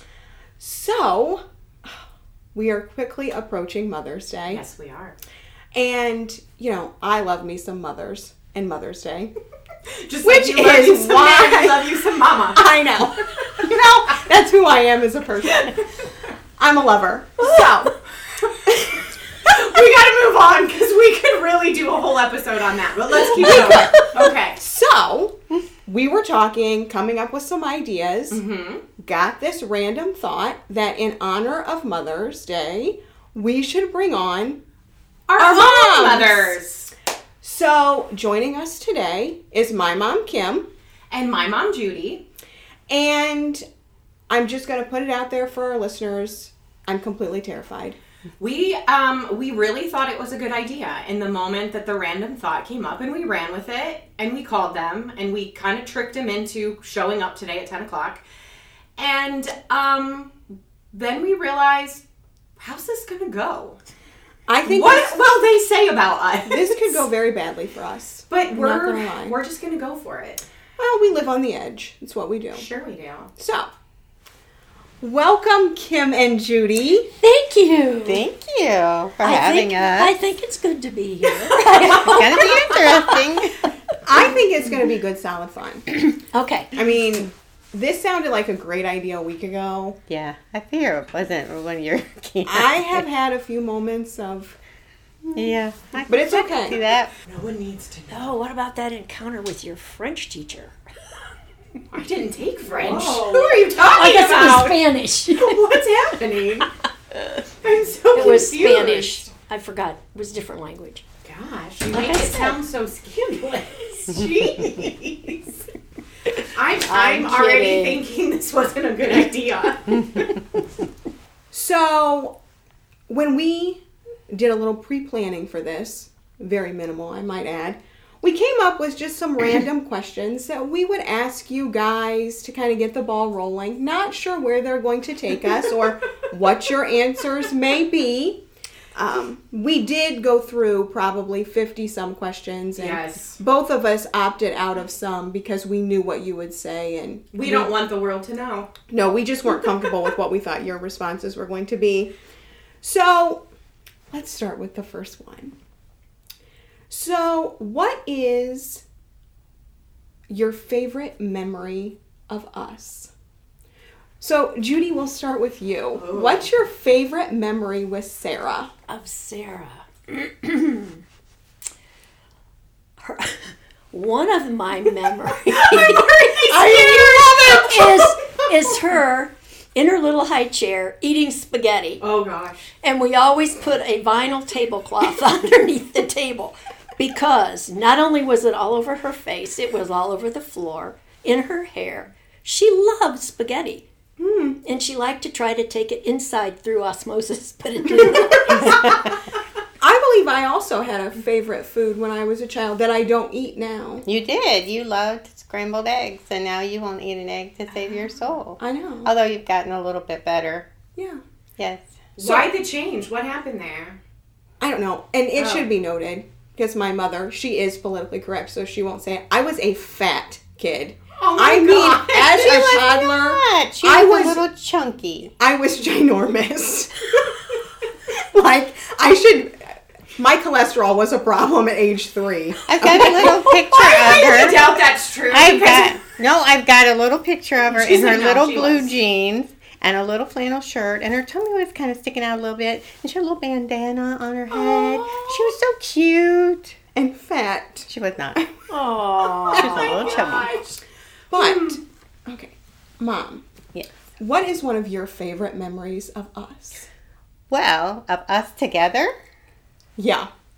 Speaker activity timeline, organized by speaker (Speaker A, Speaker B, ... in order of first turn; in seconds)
Speaker A: 0.6-2.0, 2.5-4.6, 5.7-9.3, 10.2-15.7, 16.6-17.9, 23.1-28.4, 29.0-34.6, 35.4-36.6, 37.4-40.6, 42.9-43.6, 44.3-48.0, 64.5-65.2, 66.5-69.4, 70.8-72.7, 73.4-73.7, 75.0-77.1, 84.0-85.9, 86.7-90.0, 92.4-94.6, 96.1-96.8, 102.8-103.4, 121.5-122.4, 123.1-138.4, 138.9-147.7, 148.9-152.1, 152.8-153.4, 154.1-155.5, 156.9-158.8, 160.3-163.1, 164.2-168.7, 176.4-177.9, 194.2-194.6, 199.8-204.1, 208.6-209.1, 210.9-211.2, 212.2-212.5, 214.6-224.4, 225.4-227.4, 228.2-233.4, 246.9-248.5, 249.3-250.4, 251.3-253.4, 254.2-256.9, 260.0-260.3
Speaker B: 4.5-5.2, 10.0-12.8, 13.4-13.8, 15.5-15.7, 19.4-24.6, 28.3-28.8, 35.3-36.9, 41.1-42.2, 48.4-58.2, 59.0-60.3, 60.9-62.0, 62.6-63.8, 64.7-67.0, 68.3-70.4, 72.5-73.3, 97.2-98.3, 101.9-104.8, 105.3-106.7, 107.6-109.2, 111.2-115.6, 116.4-120.2, 142.8-143.4, 147.3-148.7, 165.9-166.5, 175.5-178.0, 182.0-182.7, 212.2-214.0, 215.3-215.7, 221.2-222.6, 233.8-236.0, 237.7-238.9, 244.7-245.0, 249.6-250.6, 251.3-251.8
Speaker C: 77.2-78.2, 79.2-83.2, 85.9-86.7, 98.1-100.7, 102.9-105.8, 108.1-111.0, 111.9-112.6, 116.8-118.0, 168.9-171.0, 173.0-176.2, 177.5-182.0, 182.8-193.8, 194.6-198.8, 232.8-233.9, 248.7-250.7
Speaker D: 78.0-80.1, 81.7-83.7, 90.1-93.0, 95.3-97.1, 198.5-199.1, 204.0-210.7, 211.6-211.8, 222.2-225.3, 232.7-246.8, 247.9-248.4, 249.5-250.5, 257.5-259.1